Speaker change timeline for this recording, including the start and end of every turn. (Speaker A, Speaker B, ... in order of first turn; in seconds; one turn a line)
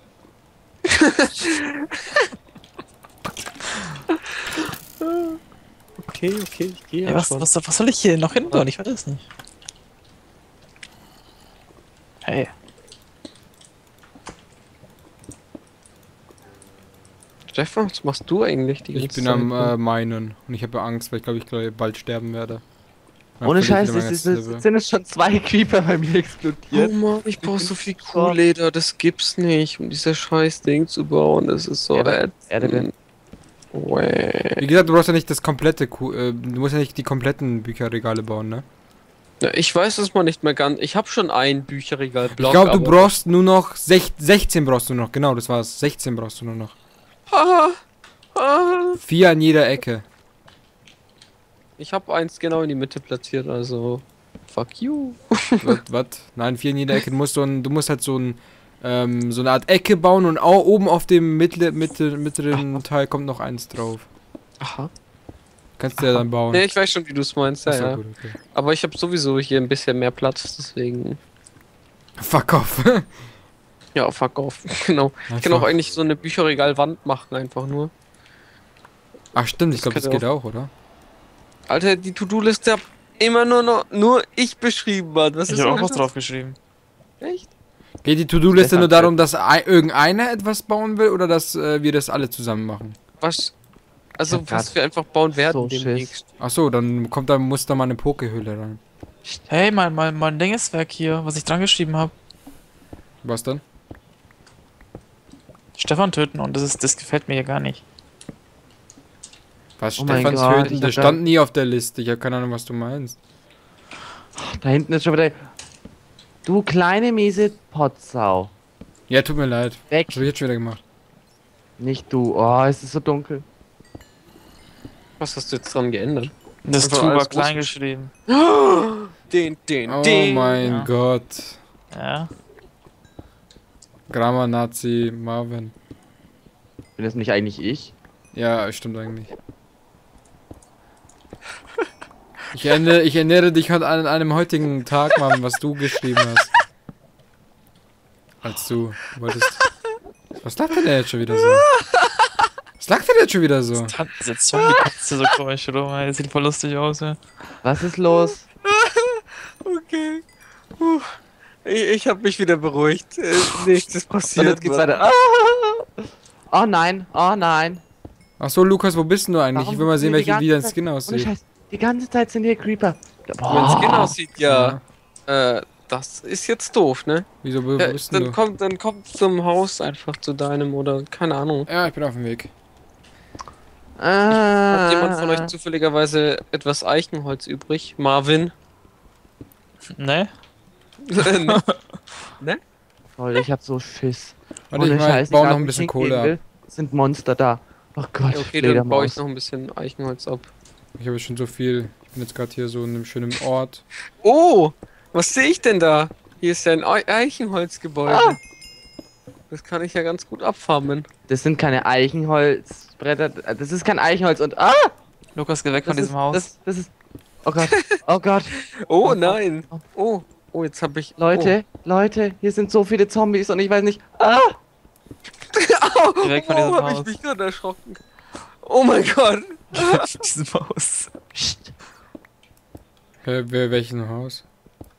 Speaker A: 0.9-2.2
Speaker A: 4.5-5.4
Speaker A: 6.0-7.5
Speaker B: 7.0-9.2
Speaker B: 12.2-12.5
Speaker A: 17.5-19.7
Speaker C: 18.9-22.6
Speaker C: 23.4-24.6
Speaker D: 23.4-28.4
Speaker A: 26.7-32.9
Speaker D: 31.9-32.9
Speaker A: 33.7-34.6
Speaker C: 34.6-38.6
Speaker A: 39.4-43.1
Speaker C: 42.3-46.7
Speaker A: 47.3-47.8
Speaker A: 48.3-49.0
Speaker C: 49.0-50.0
Speaker A: 51.8-55.6
Speaker C: 55.6-64.1
Speaker A: 64.6-64.9
Speaker C: 65.8-66.7
Speaker A: 66.5-68.0
Speaker C: 67.7-68.4
Speaker A: 68.5-71.2
Speaker C: 72.2-73.1
Speaker A: 74.0-77.9
Speaker C: 75.3-75.7
Speaker C: 79.3-80.7
Speaker A: 79.7-80.2
Speaker A: 81.7-86.1
Speaker B: 85.5-86.6
Speaker A: 87.2-87.5
Speaker C: 88.0-93.0
Speaker D: 88.5-89.2
Speaker A: 93.2-93.5
Speaker A: 94.2-96.2
Speaker D: 94.3-94.7
Speaker D: 95.4-96.2
Speaker C: 96.4-98.8
Speaker B: 99.5-102.1
Speaker C: 103.2-103.6
Speaker B: 105.7-107.8
Speaker C: 109.8-113.2
Speaker D: 110.0-111.2
Speaker A: 110.1-110.8
Speaker D: 114.4-115.4
Speaker D: 116.4-118.5
Speaker C: 119.1-120.8
Speaker D: 119.9-120.2
Speaker D: 121.8-123.4
Speaker A: 125.2-127.8
Speaker B: 126.6-128.1
Speaker A: 128.3-130.6
Speaker C: 129.8-131.6
Speaker B: 130.6-130.9
Speaker B: 131.9-132.3
Speaker C: 134.1-135.7
Speaker D: 137.0-137.9
Speaker C: 138.3-139.3
Speaker C: 142.5-146.5
Speaker C: 148.4-149.6
Speaker C: 150.4-151.7
Speaker A: 151.4-152.3
Speaker C: 152.8-153.9
Speaker B: 153.7-157.2
Speaker D: 157.6-158.4
Speaker A: 158.1-160.2
Speaker A: 160.8-165.0
Speaker D: 164.3-167.8
Speaker C: 168.4-171.3
Speaker D: 169.5-174.1
Speaker A: 173.4-174.8
Speaker C: 174.4-174.8
Speaker A: 175.3-177.3
Speaker C: 177.4-178.4
Speaker A: 177.8-181.7
Speaker C: 181.7-182.5
Speaker D: 184.0-185.5
Speaker A: 184.3-188.5
Speaker B: 189.9-190.3
Speaker A: 191.1-191.6
Speaker B: 191.2-191.8
Speaker D: 193.2-199.2
Speaker C: 194.7-196.3
Speaker A: 198.3-200.5
Speaker C: 201.0-203.8
Speaker A: 204.2-208.4
Speaker D: 208.1-208.4
Speaker A: 209.5-211.1
Speaker D: 211.3-214.9
Speaker B: 215.3-216.5
Speaker D: 215.8-216.9
Speaker D: 217.4-219.8
Speaker A: 217.6-217.9
Speaker A: 218.8-221.6
Speaker D: 221.2-224.6
Speaker A: 225.5-228.0
Speaker B: 226.2-227.1
Speaker A: 228.6-230.3
Speaker B: 229.7-231.2
Speaker D: 231.3-231.7
Speaker C: 233.2-234.4